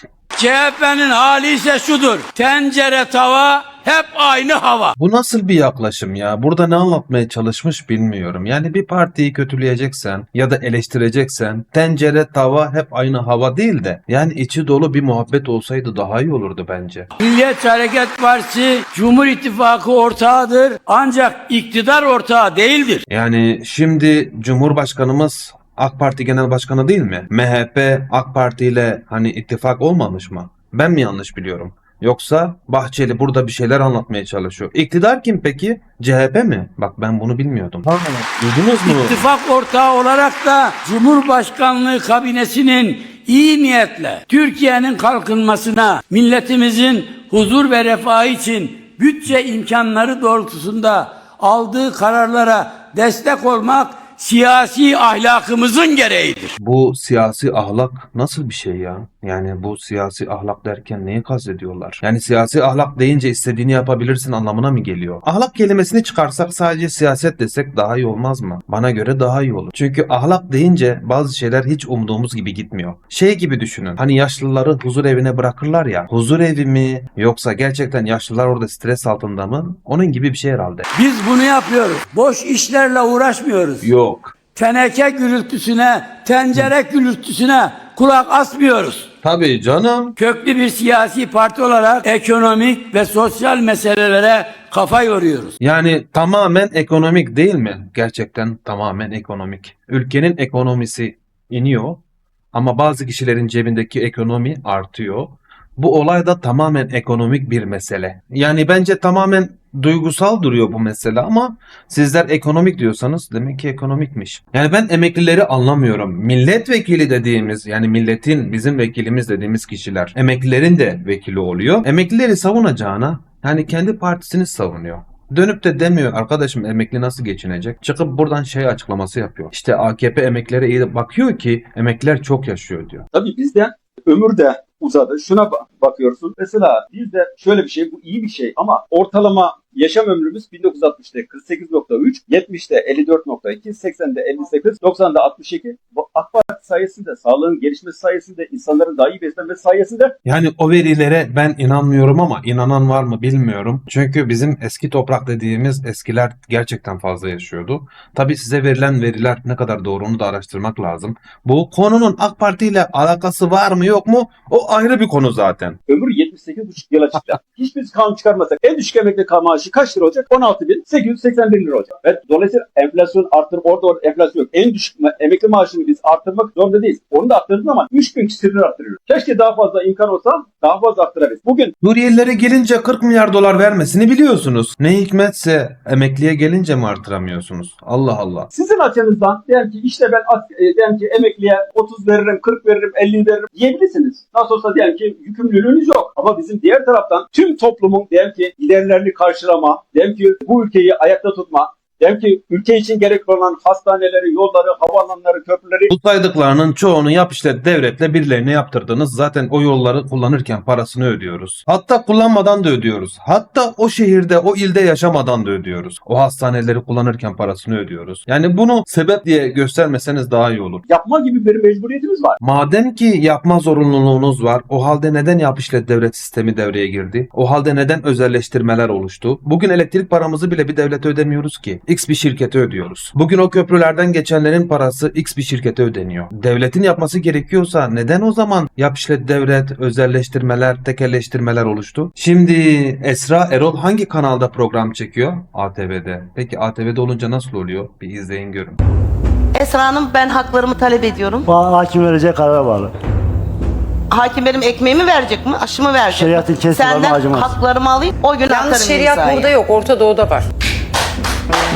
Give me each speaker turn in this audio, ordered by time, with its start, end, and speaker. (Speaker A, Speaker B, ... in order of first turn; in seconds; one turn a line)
Speaker A: 0.3-4.9
Speaker B: 5.0-17.1
Speaker A: 17.2-23.0
Speaker B: 23.1-39.2
Speaker A: 38.8-56.5
Speaker B: 56.6-80.8
Speaker A: 80.9-83.9
Speaker B: 83.8-84.3
Speaker A: 84.5-89.1
Speaker B: 89.2-90.2
Speaker A: 90.2-95.5
Speaker B: 95.6-102.0
Speaker B: 102.5-133.0
Speaker C: 133.1-150.1
Speaker B: 150.2-165.8
Speaker C: 165.9-181.7
Speaker B: 181.8-188.5
Speaker C: 188.5-205.9
Speaker B: 205.9-220.8
Speaker C: 220.9-222.4
Speaker B: 222.4-248.8
Speaker D: 249.5-251.5
Speaker E: 251.5-252.9
Speaker D: 254.1-259.5
Speaker E: 256.1-257.6
Speaker F: 258.5-260.4